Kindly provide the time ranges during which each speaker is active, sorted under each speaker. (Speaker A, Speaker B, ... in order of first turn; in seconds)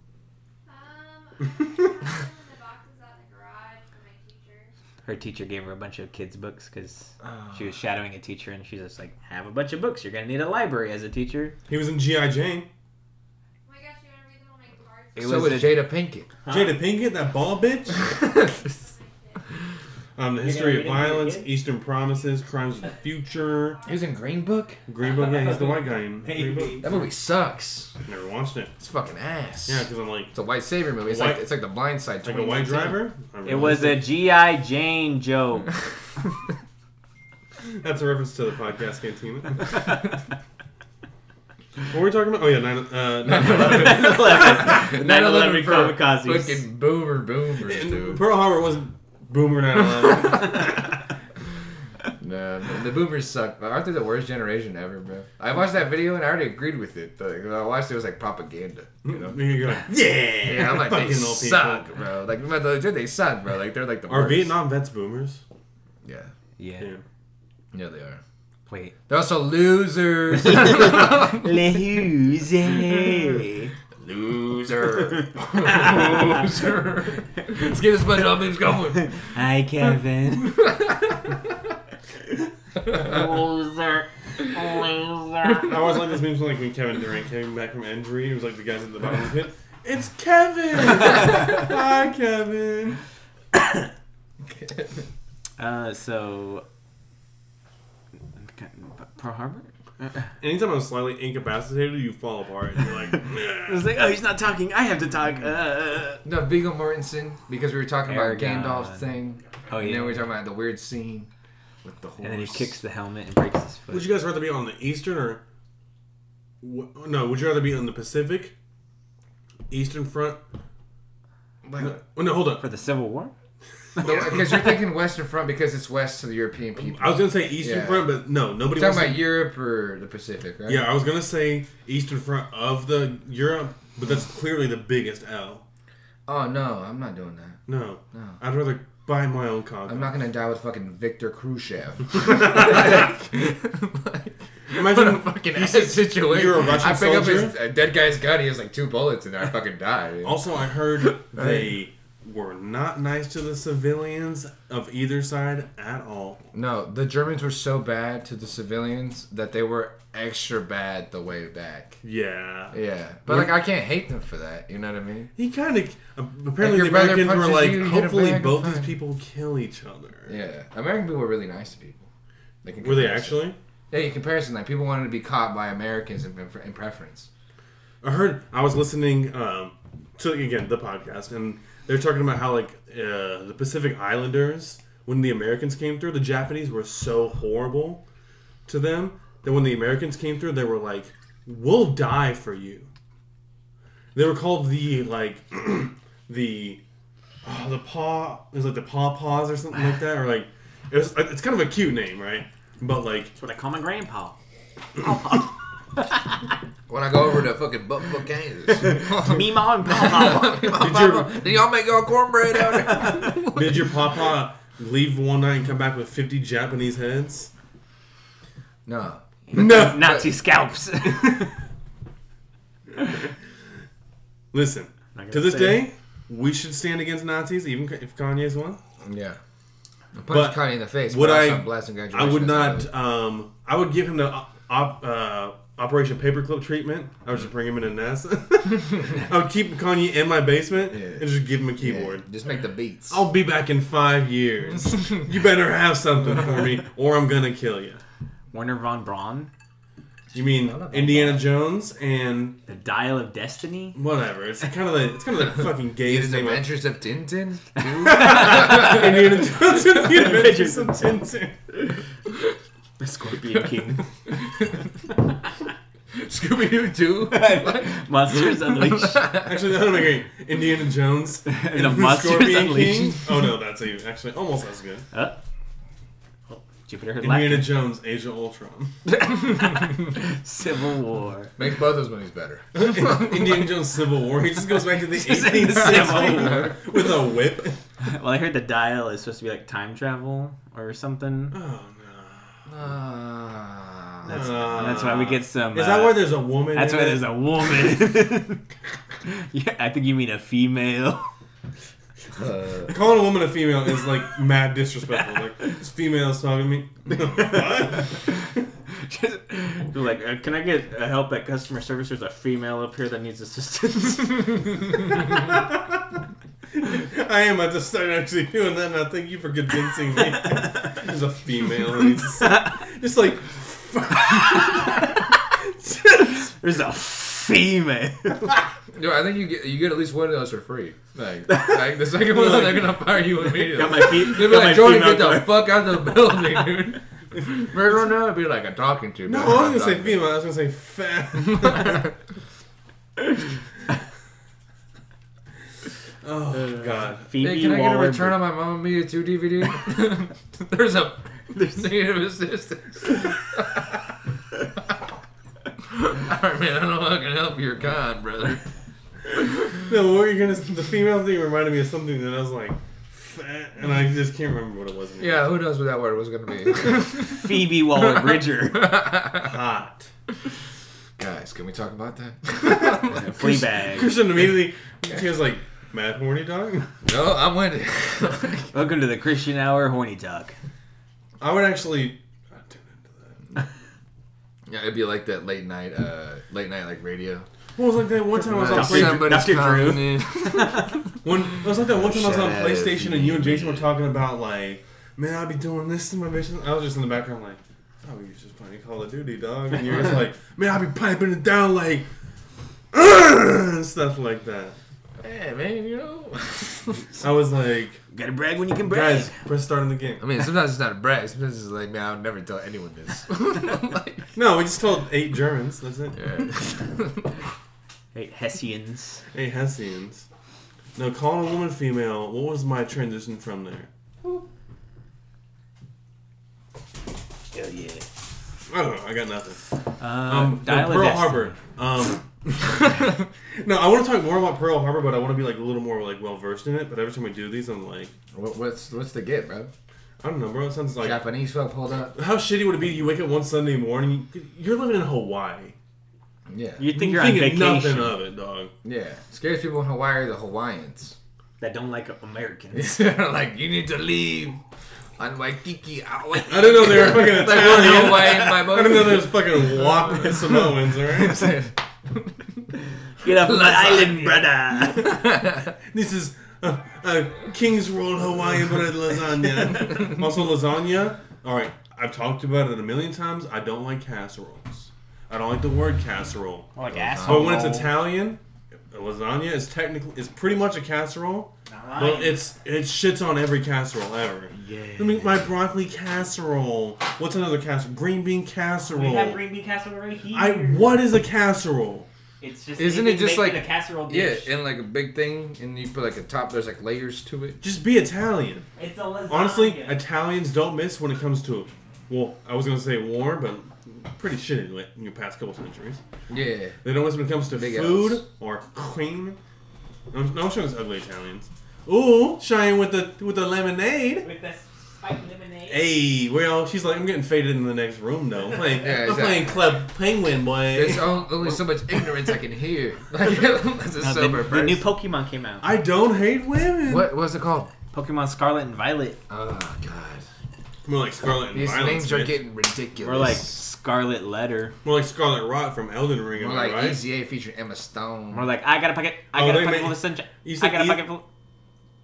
Speaker A: 0.7-4.7, 13.7-15.8, 17.5-19.5, 22.6-24.8
Speaker B: 5.0-11.6, 15.2-15.9, 16.4-16.8, 20.4-21.5, 25.0-26.9, 33.5-35.7, 43.4-46.6, 66.6-66.9, 68.7-69.0, 70.4-73.7, 75.2-76.1, 79.1-80.6, 82.9-85.7, 95.6-96.7, 98.4-100.3, 103.7-106.2, 108.1-109.1, 109.7-110.3, 112.2-114.1, 122.6-123.3, 124.0-124.6, 203.4-204.4, 205.0-205.5, 208.8-210.8, 213.0-213.3, 219.5-221.5, 225.2-225.9, 248.5-249.5, 252.7-254.0, 258.0-259.2, 259.9-261.1, 263.0-264.1, 267.3-269.3, 271.5-273.2, 275.1-275.4, 276.5-277.7, 279.2-281.6, 285.1-286.8, 288.0-291.6, 294.3-298.6, 299.2-301.3, 307.4-308.3, 308.9-314.8, 322.4-322.8, 324.8-325.2, 326.5-328.5, 333.4-335.7, 346.6-348.4, 367.1-369.0, 373.1-374.2, 378.7-380.6, 388.7-391.0, 408.1-409.4, 418.1-419.2, 427.5-428.1, 430.0-431.6, 446.8-448.2, 451.6-453.0, 463.2-465.2, 476.8-478.0, 481.7-482.4, 484.6-485.0, 488.9-491.0, 492.4-494.5, 498.8-500.0, 514.2-515.9, 524.0-525.7, 527.9-529.2, 533.0-534.7, 538.3-541.2
Speaker C: 7.2-7.7, 15.2-16.3, 23.9-24.8, 26.8-27.9, 28.8-33.1, 43.2-48.2, 52.2-59.4, 60.4-64.5, 66.0-66.3, 67.7-68.2, 69.1-71.5, 74.0-79.3, 80.4-81.5, 94.5-95.0, 106.2-111.3, 111.8-112.7, 121.7-122.0, 124.0-128.2, 128.7-130.9, 136.3-137.6, 139.9-150.4, 151.3-151.7, 156.5-162.0, 162.7-165.3, 166.6-168.9, 170.3-172.1, 172.6-177.3, 206.9-213.9, 218.9-220.3, 229.0-229.4, 230.2-232.9, 240.9-243.2, 250.4-251.5, 256.0-259.5, 264.4-264.8, 266.1-269.5, 281.6-283.6, 285.8-286.7, 292.7-294.9, 302.3-302.9, 328.9-340.3, 341.6-342.0, 347.4-353.9, 355.8-358.6, 365.2-369.5, 371.2-373.3, 377.1-378.7, 384.7-387.5, 388.4-393.9, 405.2-407.2, 410.2-414.3, 416.2-417.3, 438.3-439.7, 441.0-442.1, 446.5-446.9, 448.8-451.2, 452.7-454.6, 455.2-459.4, 460.1-460.5, 461.1-462.4, 463.4-465.7, 476.9-477.7, 492.8-497.6, 506.3-506.8, 507.5-508.2, 518.7-519.7, 520.7-524.9, 526.9-527.7, 529.3-530.2, 531.5-533.6, 536.3-538.5
Speaker D: 11.7-12.7, 16.5-18.0, 20.2-23.8, 24.9-26.9, 28.1-28.7, 29.7-30.3, 31.0-31.5, 32.2-34.1, 37.8-39.9, 41.9-44.8, 47.6-51.0, 59.0-61.9, 64.1-65.4, 85.6-93.0, 100.4-103.9, 113.9-115.4, 116.6-118.5, 119.7-120.4, 121.8-122.6, 124.0-124.7, 126.8-129.3, 130.7-135.6, 137.7-140.1, 142.2-143.0, 144.7-147.6, 150.2-156.4, 162.0-163.6, 165.4-170.4, 172.8-173.6, 178.0-188.0, 188.7-192.9, 194.2-196.8, 197.4-203.3, 210.8-211.5, 213.3-217.5, 219.5-220.2, 224.5-228.8, 230.3-242.3, 243.1-248.0, 250.3-252.6, 253.9-256.7, 258.1-261.6, 269.4-275.1, 277.2-278.9, 282.7-287.8, 291.5-292.8, 294.3-297.3, 302.9-308.3, 315.3-315.8, 316.7-326.5, 339.3-342.1, 346.2-347.3, 359.7-365.5, 369.4-370.1, 372.7-376.9, 381.4-383.6, 387.8-389.6, 391.2-402.1, 402.9-404.8, 407.2-408.0, 408.9-410.3, 414.4-416.2, 419.3-420.3, 421.0-423.9, 428.7-429.7, 430.2-438.1, 440.2-441.2, 442.1-445.8, 446.9-448.7, 456.5-461.6, 465.9-476.7, 477.2-478.4, 478.9-489.4, 490.3-492.1, 497.6-498.7, 499.3-506.0, 506.8-509.4, 510.1-514.3, 515.7-521.6, 525.6-527.1, 530.9-532.4, 534.8-537.0, 539.3-541.1